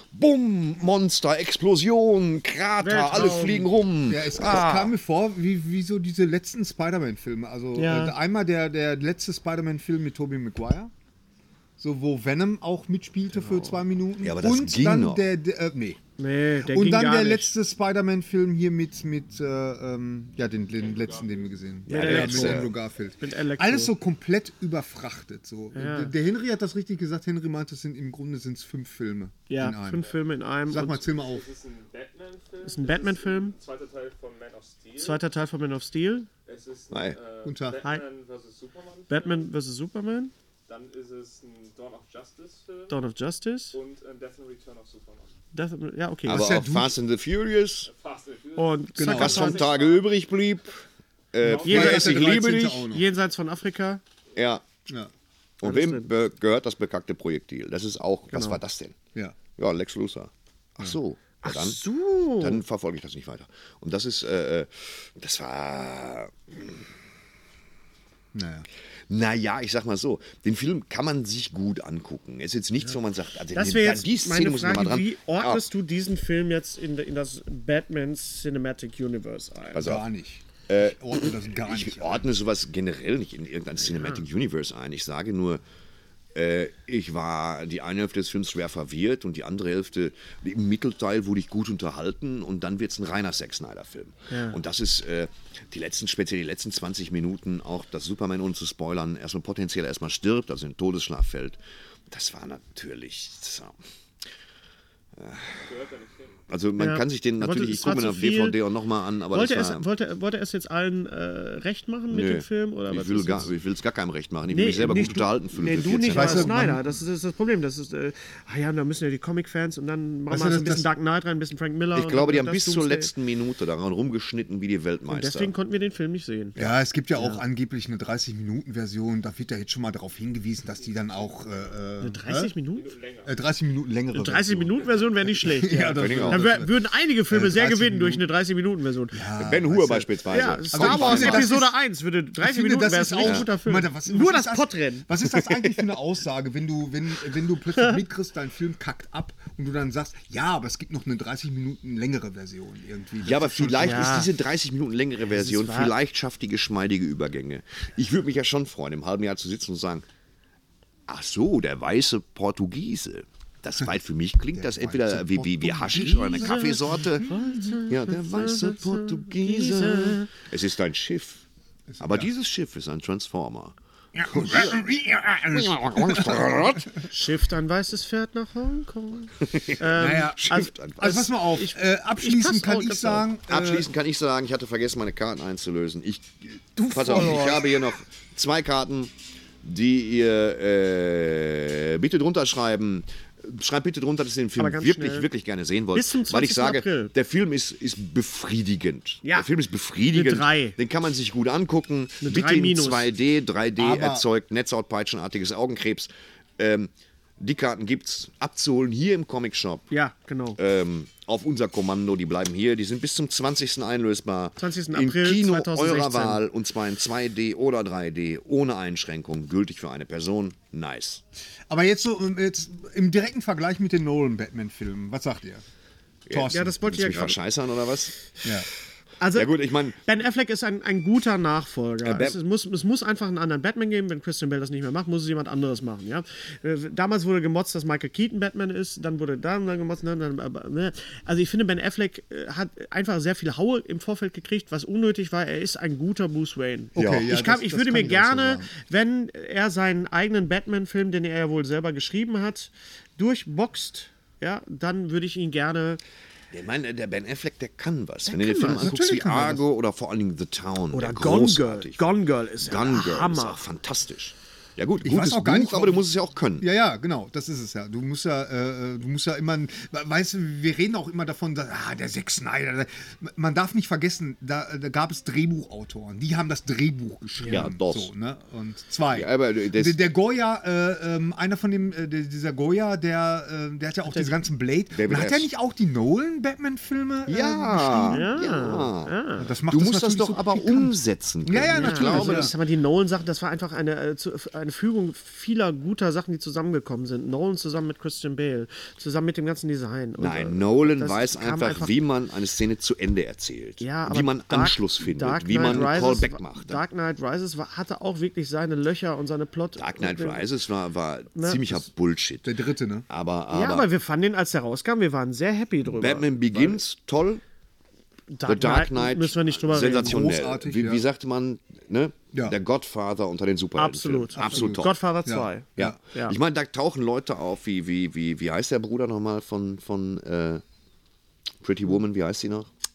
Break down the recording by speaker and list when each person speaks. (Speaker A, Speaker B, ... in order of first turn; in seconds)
Speaker A: 0.1-4.9, 14.2-15.3, 21.9-22.7, 36.9-37.2, 46.3-47.9, 49.1-50.8, 51.3-52.9, 54.4-54.6, 55.6-59.0, 59.5-61.8, 62.4-66.8, 69.1-75.6, 79.7-80.1, 80.7-85.6, 86.3-101.6, 102.1-103.8, 105.2-105.6, 106.5-109.8, 112.1-116.5, 122.0-125.5, 135.9-136.4, 139.4-141.6, 143.2-143.5, 153.2-160.1, 161.1-167.3, 167.9-171.4, 172.0-174.8, 175.5-177.1, 179.4-181.3, 183.5-209.9, 210.6-221.2, 226.3-228.1, 229.3-230.0, 232.0-232.4, 247.0-247.3, 256.5-262.0, 262.6-266.7, 277.5-278.1, 279.1-280.0, 284.9-285.5, 287.3-289.2, 289.7-292.5, 300.2-306.8, 309.8-313.9, 315.8-317.4, 318.4-324.9, 325.8-330.6, 331.6-332.7
Speaker B: 2.8-3.7, 7.8-8.2, 13.4-13.8, 16.2-17.5, 21.9-23.9, 25.8-26.1, 29.5-31.0, 32.7-33.5, 35.0-36.3, 39.1-40.3, 42.9-43.8, 45.5-46.5, 48.6-49.7, 51.6-54.0, 55.6-56.1, 58.3-58.6, 61.4-62.6, 73.5-79.9, 83.9-84.2, 94.3-94.6, 106.8-108.6, 109.3-113.5, 114.5-123.1, 125.1-127.4, 132.0-132.9, 134.1-139.2, 140.3-145.8, 153.8-154.3, 155.2-155.9, 166.0-170.3, 177.1-183.3, 187.2-187.5, 194.6-195.3, 195.9-197.1, 199.2-199.5, 200.1-200.8, 202.2-203.1, 209.9-210.6, 214.6-216.4, 226.5-227.4, 229.2-256.0, 258.2-258.9, 260.9-263.6, 277.4-277.7, 284.1-284.3, 288.1-289.5, 291.8-301.9, 303.8-310.4, 311.4-311.6, 313.5-316.8, 318.3-320.2, 323.8-326.4
Speaker C: 4.1-10.9, 11.8-16.0, 16.6-30.1, 30.7-31.5, 37.5-37.8, 46.3-47.0, 49.0-49.5, 51.4-53.1, 68.3-68.7, 79.8-82.3, 116.1-116.8, 120.3-120.9, 126.6-132.5, 133.2-136.8, 137.3-138.3, 139.1-141.8, 142.4-154.2, 164.5-167.7, 171.9-172.3, 174.2-176.5, 179.9-183.9, 186.8-187.8, 203.8-204.2, 221.7-225.6, 226.3-226.8, 246.9-248.7, 258.8-259.6, 265.0-266.0, 266.6-288.2, 289.4-292.5, 305.6-305.9, 312.4-313.1, 320.0-321.0, 324.4-326.0
Speaker D: 20.8-21.5, 31.0-35.2, 36.5-39.5, 40.7-43.0, 43.7-45.4, 47.9-50.1, 51.4-51.9, 105.5-106.4, 130.8-131.6, 132.7-133.3